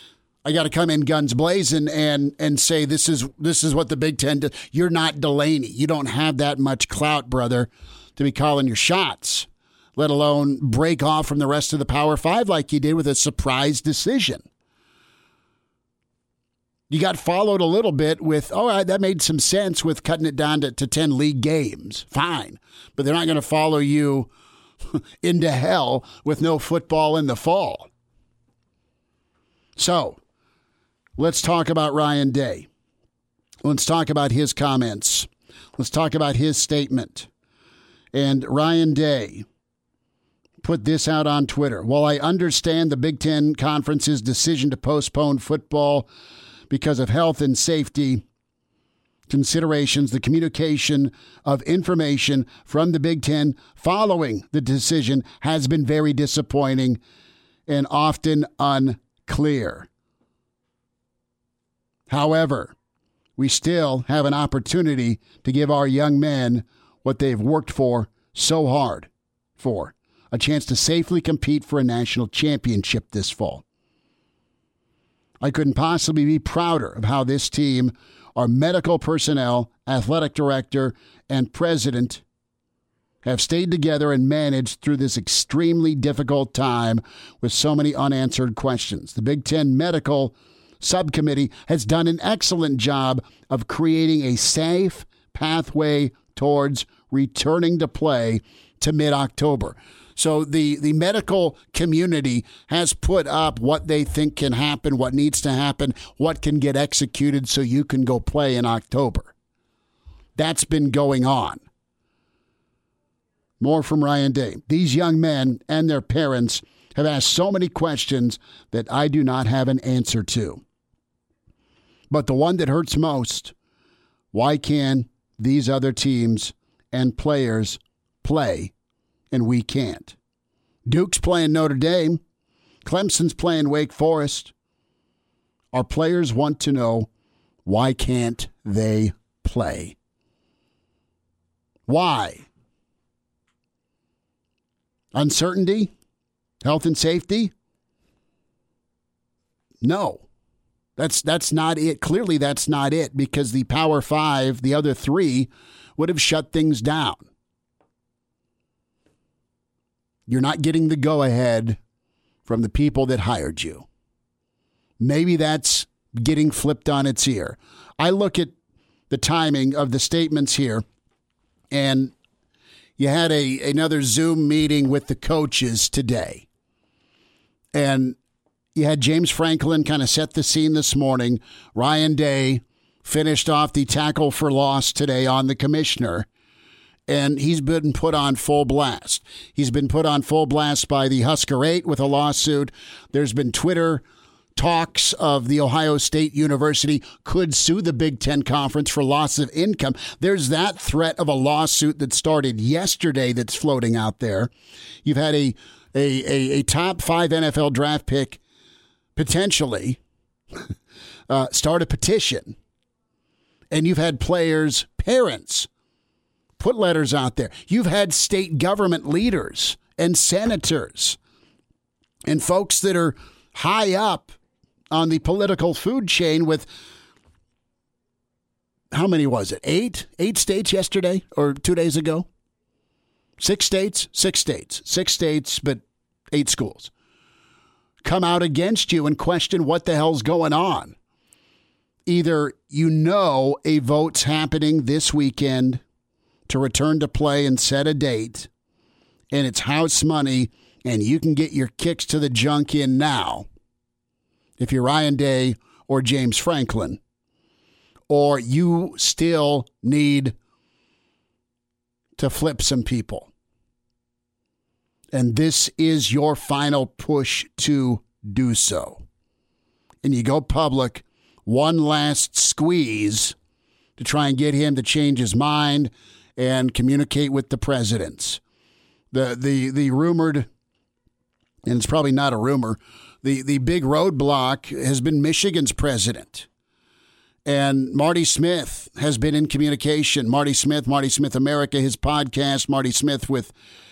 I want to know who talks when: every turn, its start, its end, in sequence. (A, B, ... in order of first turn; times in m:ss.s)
0:00.4-0:14.4 A
0:16.9-0:24.3 A
0:25.2-0:27.9 A
0:29.8-0:30.2 A
0:31.2-0:32.7 A
0:33.6-0:37.3 A
0:38.1-0:39.4 A
0:40.6-0:46.1 A
0:46.7-0:48.2 A
0:49.3-0:57.0 A
0:57.7-0:59.9 A
1:02.1-1:02.7 A
1:03.4-1:13.6 A
1:15.4-1:22.2 A
1:23.2-1:49.3 A
1:50.4-1:51.6 A
1:53.6-2:00.6 A
2:02.1-2:03.5 A
2:04.3-2:08.7 A
2:09.3-2:10.2 A
2:10.8-2:12.2 A
2:12.8-2:14.5 A
2:15.7-2:17.1 A
2:17.6-2:20.0 A
2:21.9-2:22.4 A
2:25.1-2:25.9 A
2:26.6-2:27.5 A
2:29.8-2:30.2 A
2:31.0-2:37.3 A
2:40.3-2:41.8 A
2:42.5-2:43.8 A
2:45.0-2:48.5 A
2:49.1-2:50.8 A
2:51.7-2:52.1 A
2:53.0-2:56.4 A
2:57.7-2:58.2 A
2:58.7-3:06.3 A
3:07.1-3:14.0 A
3:14.5-3:24.5 A
3:25.0-3:28.4 A
3:29.2-3:30.0 A
3:31.3-3:32.6 A
3:33.7-3:35.7 A
3:36.6-3:41.2 A
3:42.2-3:44.3 A
3:44.9-3:46.7 A
3:48.9-3:52.3 A
3:53.4-3:56.9 A
3:58.0-4:00.9 A
4:02.0-4:05.8 A
4:06.5-4:08.5 A
4:09.3-4:13.5 A
4:14.6-4:17.0 A
4:18.1-4:20.4 A
4:22.2-4:23.3 A
4:25.1-4:29.0 A
4:30.0-4:33.4 A
4:34.0-4:38.4 A
4:39.1-4:40.5 A
4:41.6-4:46.5 A
4:47.4-4:53.5 A